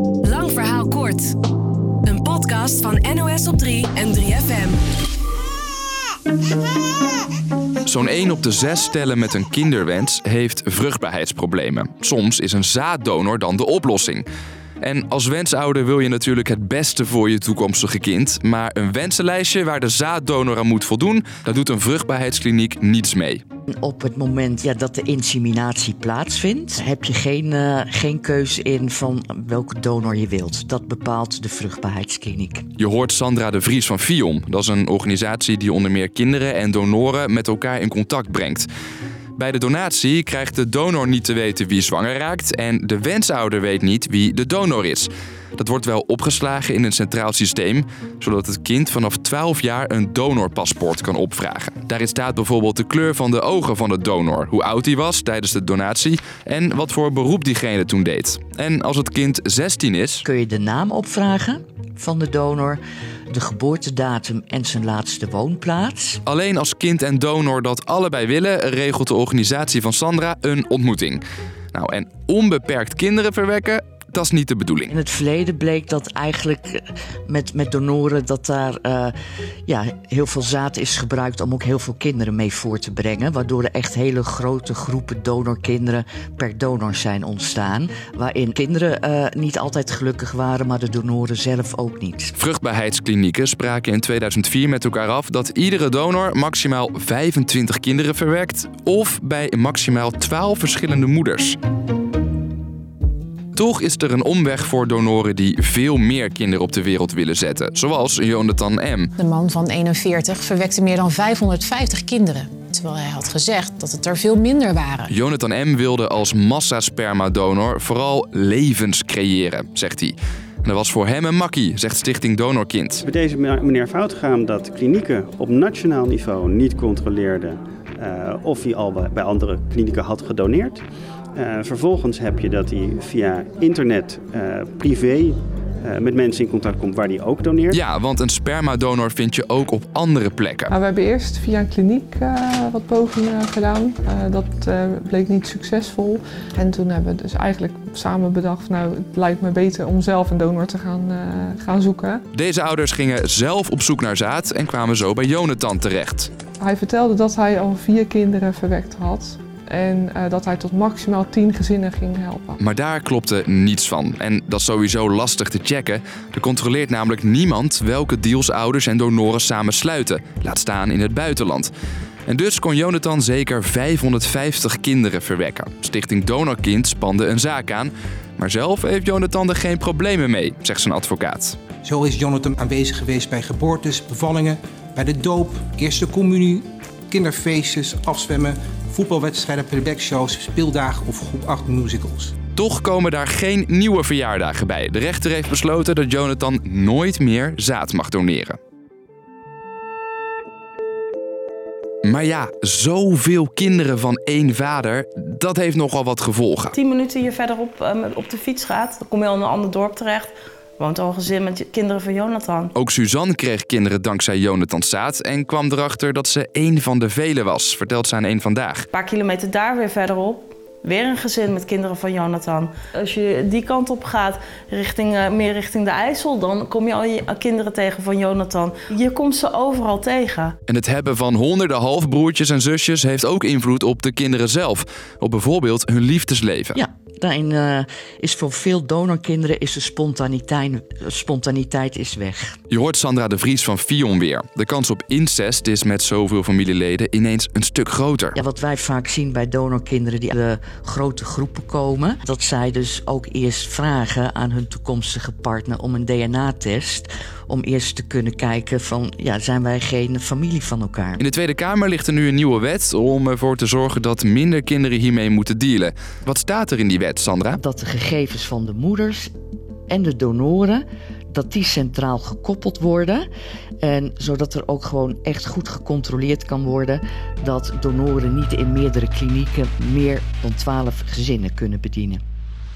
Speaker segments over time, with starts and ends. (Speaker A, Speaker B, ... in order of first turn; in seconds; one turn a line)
Speaker A: 0.2-1.3
Speaker A: 2.0-4.8
Speaker B: 7.8-14.2
Speaker B: 14.8-23.4
Speaker C: 23.8-32.6
Speaker B: 32.8-38.7
Speaker B: 39.4-60.2
Speaker C: 60.2-66.2
Speaker B: 66.2-71.2
Speaker B: 71.7-74.9
Speaker C: 74.9-79.1
Speaker C: 79.7-92.3
Speaker B: 92.4-101.5
Speaker B: 103.5-109.1
Speaker D: 109.2-115.1
Speaker B: 115.1-123.0
Speaker E: 123.0-130.8
Speaker E: 131.3-137.8
Speaker B: 137.7-140.7
Speaker F: 140.7-152.2
Speaker B: 152.3-156.3
Speaker F: 156.6-162.6
Speaker B: 162.6-171.7
Speaker B: 172.3-181.6
Speaker G: 181.8-192.3
Speaker B: 192.6-198.6
Speaker B: 202.0-206.8
Speaker H: 206.7-212.7
Speaker B: 212.7-218.9
Speaker H: 218.9-230.5
Speaker B: 230.7-236.8
Speaker C: 236.7-242.6
Speaker B: 242.7-248.4
Speaker C: 248.3-261.2
Speaker B: 261.2-267.6
Speaker C: 267.6-269.3
Speaker C: 269.9-273.3
Speaker C: 273.8-282.2